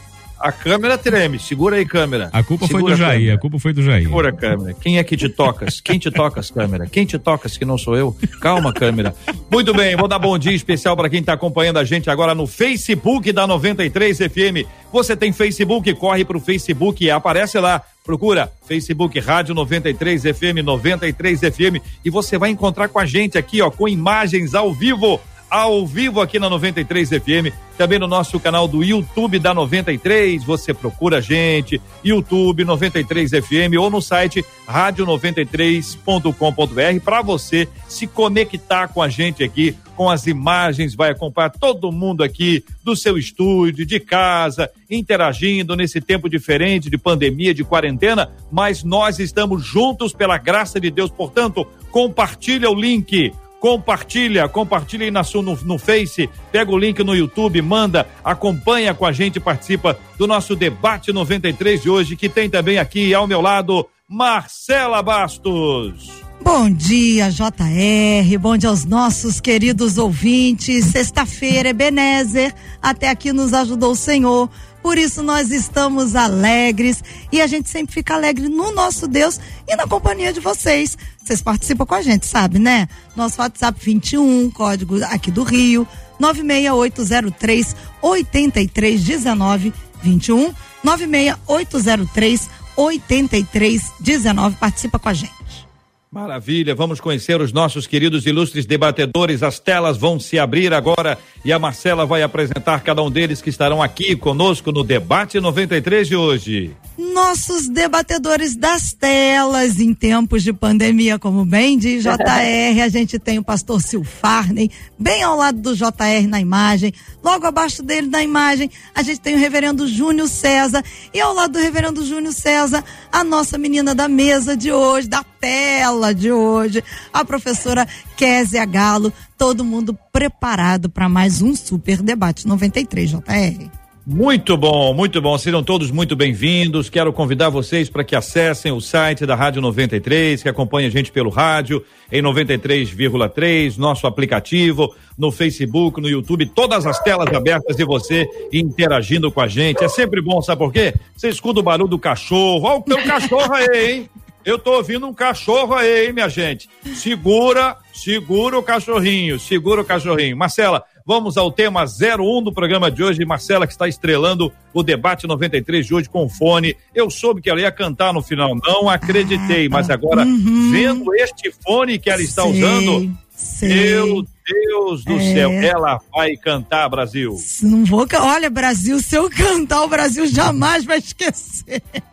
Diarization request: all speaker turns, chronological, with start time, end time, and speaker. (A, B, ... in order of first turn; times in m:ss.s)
0:00.4-0:03.4 A
0:02.3-0:04.3 B
0:04.1-1:06.2 A
0:05.4-0:06.0 B
0:08.5-0:08.9 B
1:06.4-1:35.6 C
1:36.1-1:46.8 A
1:47.0-2:13.7 C
2:14.1-2:53.0 A
2:49.0-2:51.1 C
2:52.1-2:54.3 C
2:53.6-2:57.4 A
2:55.1-2:55.7 C
2:57.4-3:01.8 C